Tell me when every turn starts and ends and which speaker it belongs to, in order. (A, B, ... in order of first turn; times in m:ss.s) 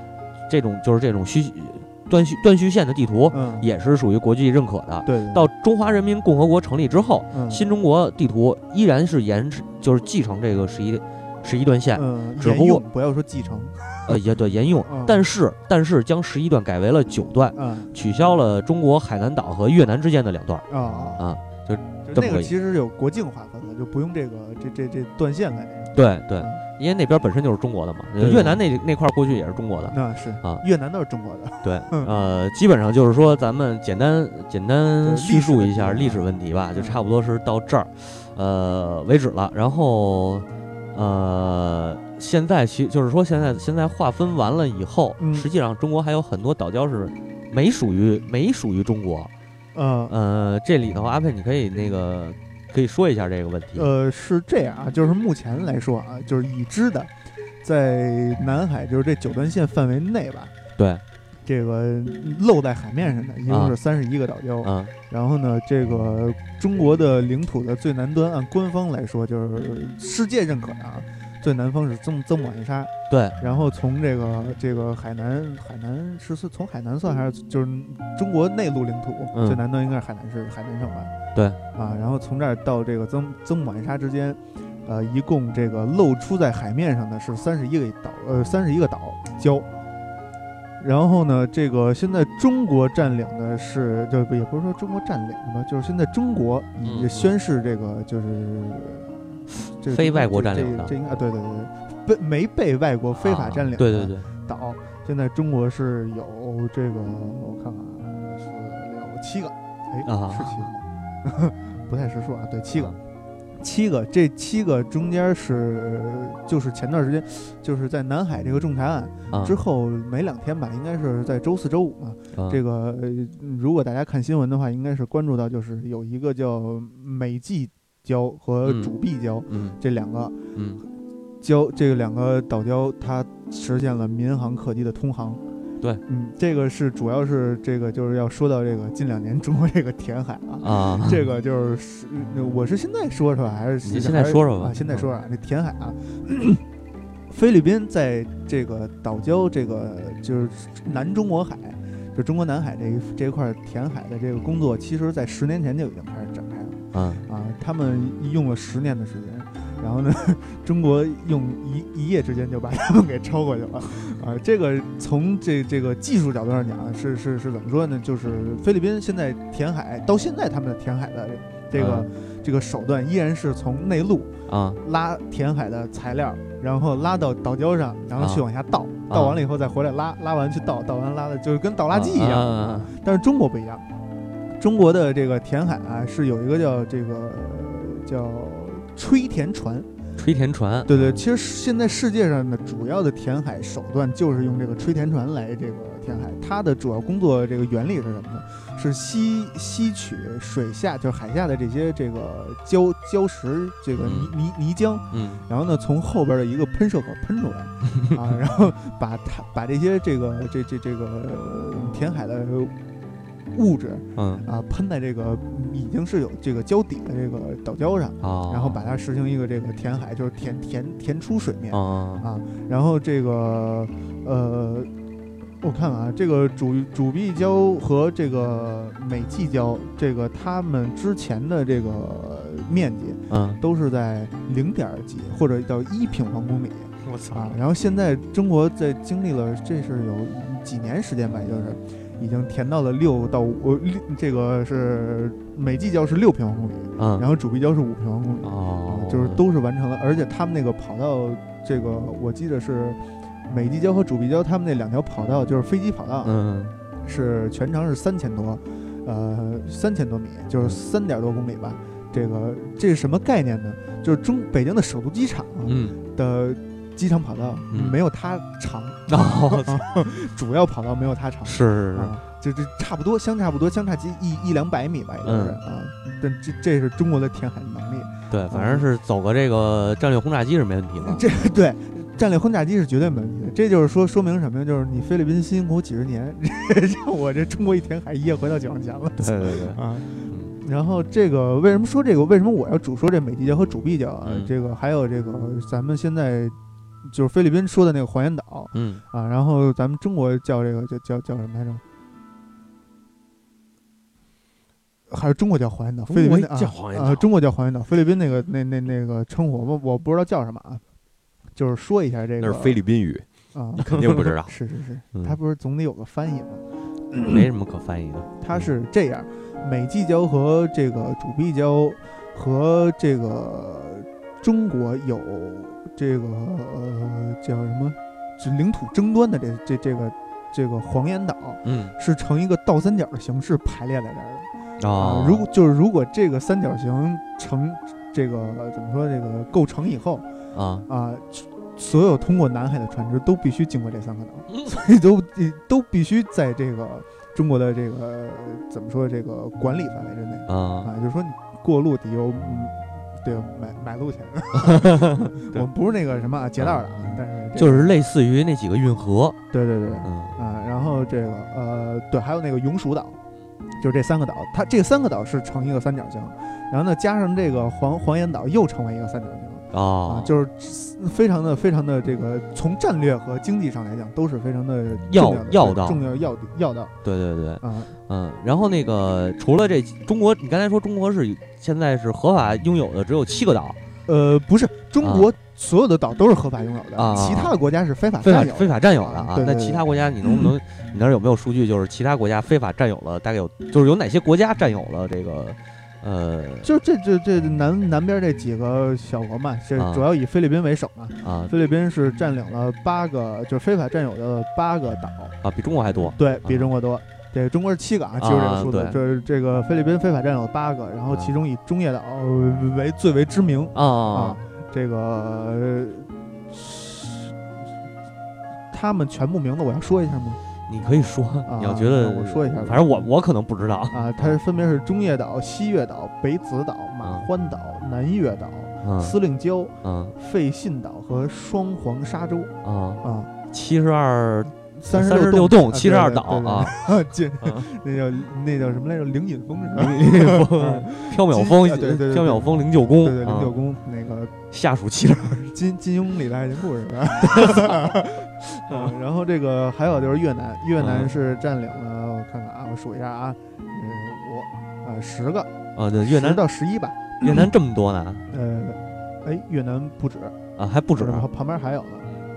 0:00.5-0:12.8 A
0:03.3-0:03.7 B
0:05.0-0:05.5 B
0:07.3-0:07.6 B
0:11.9-0:14.1 B
0:14.1-0:20.6 A
0:14.9-0:15.2 B
0:17.5-0:17.9 B
0:20.7-0:21.3 B
0:21.2-0:22.5 A
0:22.0-0:26.6 B
0:25.9-0:30.6 A
0:28.2-0:28.6 B
0:29.9-0:32.1 B
0:31.6-0:49.3 A
0:35.0-0:36.2 B
0:36.7-0:37.0 B
0:45.2-0:45.5 B
0:49.7-0:50.1 B
0:50.1-0:53.9 A
0:53.8-0:57.1 B
0:57.6-1:00.5 B
1:00.8-1:01.0 A
1:01.4-1:21.1 B
1:03.5-1:03.8 A
1:04.6-1:04.9 A
1:13.1-1:13.4 A
1:19.3-1:19.6 A
1:21.7-1:29.7 B
1:30.8-1:53.0 B
1:36.8-1:37.3 A
1:39.5-1:40.9 A
1:43.2-1:44.3 A
1:50.0-1:50.7 A
1:53.6-2:10.4 B
2:02.3-2:02.6 A
2:08.6-2:08.9 A
2:09.5-2:09.8 A
2:10.5-2:10.8 A
2:11.4-2:15.4 B
2:16.1-2:26.6 B
2:20.6-2:21.2 A
2:23.8-2:25.1 A
2:27.3-3:03.8 B
2:36.9-2:37.2 A
2:51.7-2:52.1 A
2:54.5-2:54.8 A
2:58.2-2:58.4 A
2:59.1-2:59.4 A
3:01.9-3:02.9 A
3:04.6-3:09.9 B
3:10.2-3:11.2 A
3:10.9-3:32.7 B
3:24.0-3:24.3 A
3:25.1-3:25.4 A
3:27.9-3:28.2 A
3:33.5-3:44.9 B
3:34.2-3:34.4 A
3:38.2-3:38.8 A
3:41.7-3:42.2 A
3:45.6-4:16.3 B
3:53.3-3:53.6 A
3:57.0-3:57.6 A
4:07.0-4:07.2 A
4:08.4-4:09.4 A
4:16.2-4:16.7 A
4:17.0-4:38.8 B
4:25.6-4:26.0 A
4:27.7-4:28.0 A
4:29.1-4:29.8 A
4:31.4-4:32.2 A
4:35.2-4:35.6 A
4:38.3-4:41.2 A
4:41.0-5:01.8 B
4:49.2-4:50.6 A
4:54.2-4:54.5 A
4:58.7-4:59.0 A
5:05.1-5:10.8 B
5:06.1-5:07.3 C
5:11.5-5:12.8 B
5:12.4-5:13.2 C
5:13.5-5:17.4 B
5:13.8-5:14.5 C
5:17.2-5:18.6 A
5:18.4-5:40.2 B
5:31.6-5:31.9 A
5:34.8-5:35.4 A
5:40.5-5:40.8 A
5:40.9-5:57.9 B
5:50.5-5:50.9 A
5:54.5-5:55.6 A
5:56.6-5:59.4 A
5:59.5-6:03.2 B
6:00.0-6:00.4 A
6:03.8-6:16.9 B
6:09.7-6:10.3 A
6:15.1-6:16.0 A
6:17.0-6:23.8 A
6:17.6-6:17.9 B
6:24.0-6:30.5 B
6:25.0-6:25.3 A
6:27.0-6:27.5 A
6:28.2-6:36.7 A
6:36.6-6:45.4 B
6:39.8-6:40.0 A
6:41.2-6:41.5 A
6:45.4-6:46.7 A
6:46.1-6:57.3 B
6:48.2-6:49.0 A
6:53.7-6:54.4 A
6:58.7-7:00.4 B
7:00.7-7:04.4 A
7:01.5-7:03.0 B
7:03.9-7:13.3 B
7:08.8-7:09.2 A
7:09.8-7:10.1 A
7:12.6-7:16.7 A
7:14.8-7:24.3 B
7:19.8-7:23.6 A
7:24.5-7:25.4 A
7:25.3-7:35.5 B
7:27.2-7:27.8 A
7:30.8-7:31.1 A
7:35.7-7:36.4 A
7:36.0-7:37.3 B
7:37.2-7:38.2 A
7:38.3-7:40.4 B
7:40.6-7:41.3 A
7:41.0-7:42.1 B